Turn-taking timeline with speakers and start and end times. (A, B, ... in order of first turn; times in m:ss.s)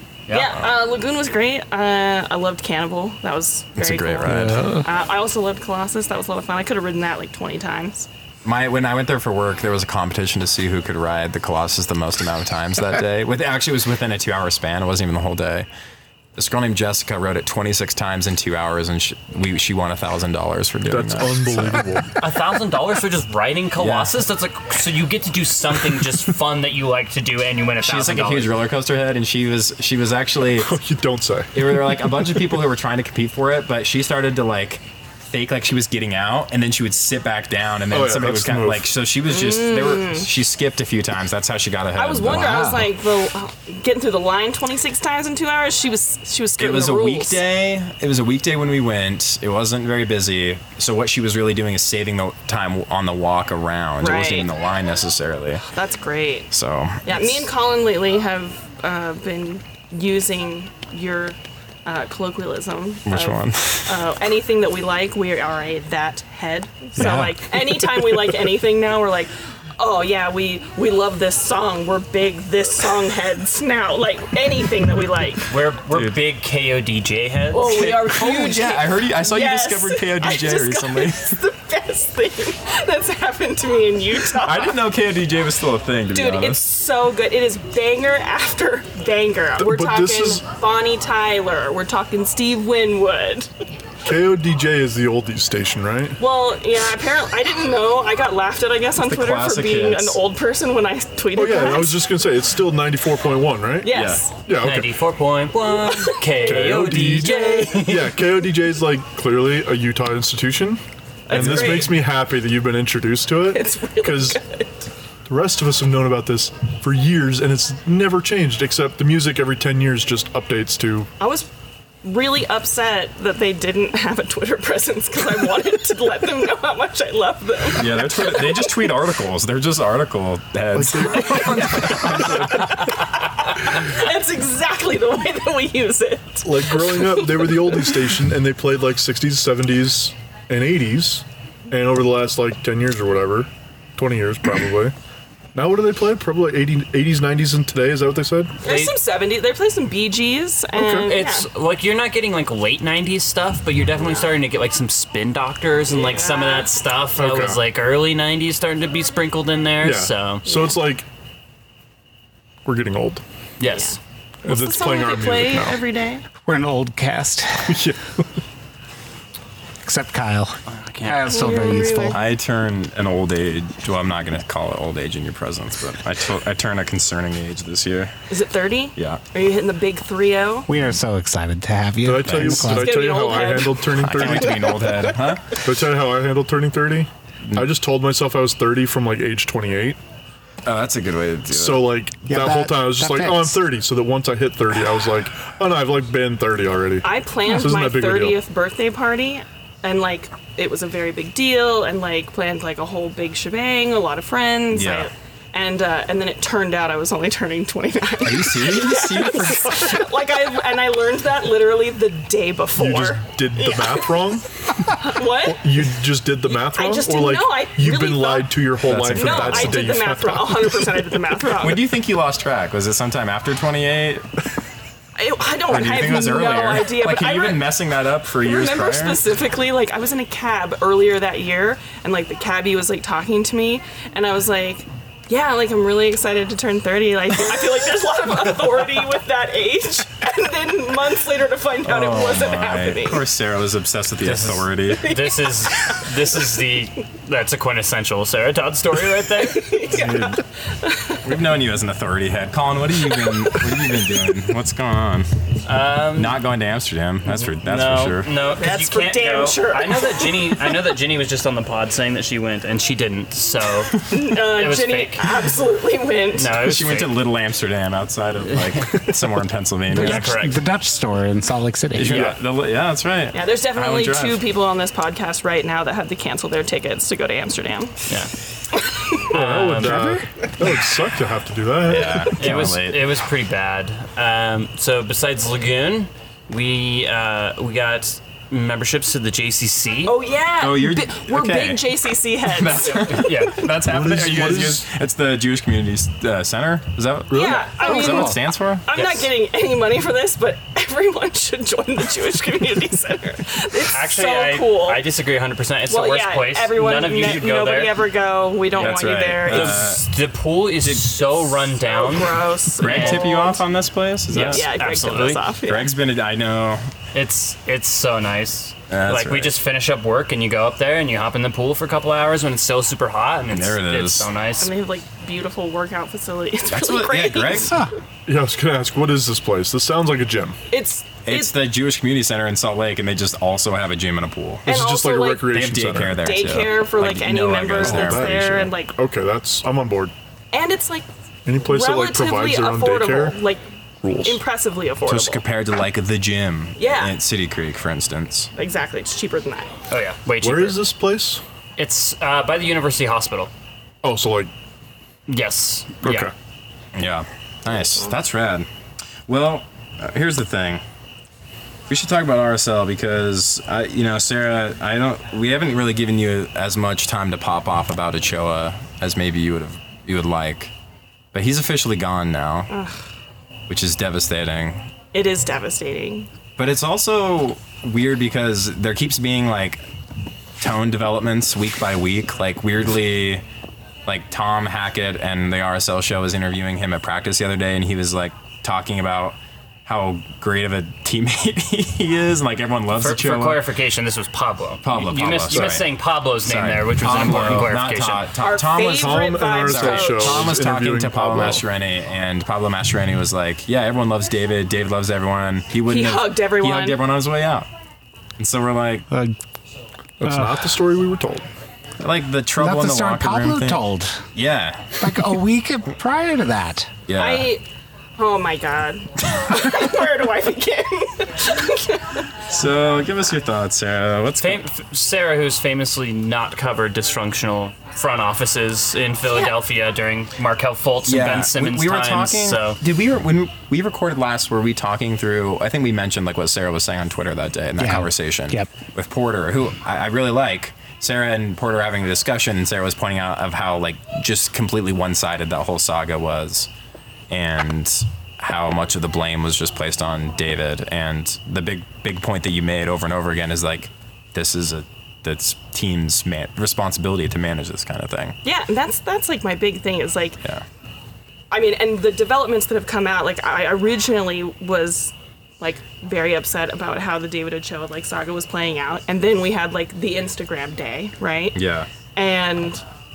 0:00.3-0:00.6 A
0:00.3-0:08.1 B
0:03.8-0:04.8 C
0:08.4-0:15.7 C
0:16.4-0:21.9 C
0:20.8-0:22.1 D
0:22.2-0:28.6 A
0:23.8-0:24.2 C
0:27.8-0:30.7 C
0:30.6-0:32.3 D
0:31.5-0:42.7 C
0:37.9-0:39.0 D
0:39.2-0:40.3 B
0:41.9-0:47.4 B
0:42.2-0:42.9 E
0:46.6-0:55.6 C
0:54.0-0:54.5 B
0:55.7-0:56.5 B
0:56.5-0:57.4 C
0:57.0-1:15.5 B
1:03.0-1:04.0 C
1:07.0-1:07.5 C
1:15.5-1:17.7 A
1:17.5-1:24.8 B
1:17.6-1:21.4 C
1:24.3-1:26.7 C
1:26.1-1:33.5 B
1:29.6-1:30.4 D
1:34.0-1:36.2 D
1:36.2-1:42.2 B
1:39.0-1:40.2 C
1:41.3-1:44.9 D
1:43.8-1:44.4 B
1:43.9-1:44.3 C
1:44.5-1:48.4 A
1:45.7-1:46.4 B
1:46.4-1:54.4 D
1:51.3-1:52.0 B
1:53.5-1:54.7 B
1:55.3-2:01.1 D
2:01.2-2:01.5 B
2:02.0-2:08.7 B
2:07.7-2:12.7 C
2:10.7-2:12.5 D
2:11.8-2:12.5 B
2:13.6-2:18.1 B
2:16.4-2:24.9 D
2:25.5-2:28.6 D
2:28.6-2:31.5 B
2:28.6-2:29.0 A
2:30.7-2:31.1 D
2:31.0-2:40.5 A
2:34.0-2:34.3 B
2:35.9-2:36.8 B
2:37.2-2:37.6 D
2:39.8-2:41.0 D
2:42.6-2:43.2 D
2:43.6-2:44.0 A
2:43.6-2:46.2 B
2:44.4-2:45.8 D
2:46.4-2:47.8 E
2:47.7-2:48.0 D
2:49.8-2:52.2 E
2:50.7-2:51.6 A
2:51.2-2:52.2 B
2:52.1-2:58.1 C
2:58.3-3:00.6 B
2:59.0-2:59.2 C
3:00.7-3:02.9 E
3:02.0-3:04.9 D
3:02.3-3:02.6 C
3:02.6-3:04.7 B
3:04.0-3:05.6 C
3:05.6-3:10.0 D
3:10.6-3:11.9 C
3:11.5-3:18.4 D
3:12.2-3:13.6 E
3:17.0-3:34.2 B
3:24.7-3:25.1 C
3:28.2-3:30.0 C
3:32.8-3:34.4 D
3:35.0-3:35.6 B
3:35.4-3:41.0 D
3:36.5-3:41.8 B
3:38.8-3:39.7 C
3:41.6-3:44.3 C
3:45.2-3:47.7 B
3:45.7-3:49.2 C
3:48.4-4:03.2 B
3:58.3-3:59.0 A
4:01.8-4:05.1 C
4:04.2-4:09.9 A
4:05.1-4:06.5 B
4:09.4-4:11.2 B
4:10.0-4:10.3 C
4:11.2-4:15.3 C
4:13.0-4:13.6 B
4:15.6-4:16.4 A
4:16.1-4:18.3 C
4:17.3-4:25.5 A
4:18.4-4:20.8 B
4:24.1-4:26.6 B
4:26.3-4:27.2 A
4:26.5-4:30.3 C
4:28.4-4:29.0 A
4:29.9-4:30.6 A
4:29.9-4:32.2 E
4:31.9-4:34.4 C
4:32.0-4:32.4 D
4:33.3-4:38.0 B
4:38.9-4:39.4 B
4:39.3-4:40.1 A
4:39.3-4:42.6 D
4:39.8-4:40.2 E
4:41.9-4:43.1 C
4:42.3-4:50.2 A
4:50.0-4:53.2 B
4:50.6-4:51.9 C
4:52.5-4:58.9 C
4:53.1-4:54.0 A
4:53.8-4:54.9 D
4:57.3-4:57.7 D
4:57.3-5:05.0 B
4:57.8-4:58.4 E
4:58.9-4:59.3 A
5:03.9-5:08.1 A
5:05.9-5:09.9 B
5:08.7-5:10.0 C
5:08.8-5:13.5 A
5:11.6-5:13.6 B
5:12.8-5:14.9 C
5:14.3-5:15.9 B
5:14.3-5:15.5 A
5:15.6-5:16.8 C
5:17.1-5:24.7 A
5:18.9-5:19.6 C
5:23.5-5:24.3 C
5:24.6-5:27.8 B
5:26.7-5:27.8 C
5:28.3-5:30.6 D
5:30.7-5:31.5 B
5:31.2-5:34.6 C
5:34.6-5:35.6 B
5:34.6-5:36.2 D
5:35.5-5:38.6 C
5:36.1-5:38.9 B
5:37.8-5:40.1 D
5:40.5-5:41.1 B
5:41.4-5:43.4 D
5:41.6-5:43.6 B
5:44.0-5:44.4 D
5:44.2-5:45.4 B
5:45.0-5:48.5 C
5:46.8-5:47.1 B
5:48.6-5:49.7 B
5:49.9-5:50.9 A
5:50.4-5:51.4 D
5:51.8-5:53.5 A
5:54.0-5:54.5 D
5:55.3-5:56.3 A
5:56.0-5:56.3 D
5:56.9-5:58.7 C
5:59.3-6:00.8 C
6:01.9-6:10.7 C
6:11.3-6:12.7 C
6:12.7-6:13.0 B
6:13.7-6:14.8 C
6:15.1-6:16.3 B
6:16.6-6:19.8 C
6:20.6-6:23.4 C
6:24.0-6:33.6 C
6:32.9-6:38.3 A
6:34.8-6:47.7 C
6:35.5-6:35.8 D
6:38.4-6:40.5 B
6:38.8-6:41.6 D
6:45.9-6:47.0 B
6:48.4-6:49.0 C
6:50.2-6:51.4 D
6:50.2-6:50.6 E
6:52.0-6:53.8 C
6:52.6-6:54.2 E
6:54.3-6:55.0 C
6:55.0-6:56.9 E
6:57.1-6:57.5 C
6:57.2-6:57.6 B
6:58.2-7:02.2 B
7:02.5-7:04.6 C
7:04.4-7:12.8 A
7:09.3-7:09.5 B
7:11.0-7:26.7 C
7:17.8-7:18.7 E
7:27.3-7:38.4 C
7:38.4-7:40.4 B
7:41.5-7:51.6 B
7:51.5-7:51.9 C
7:52.1-7:52.8 B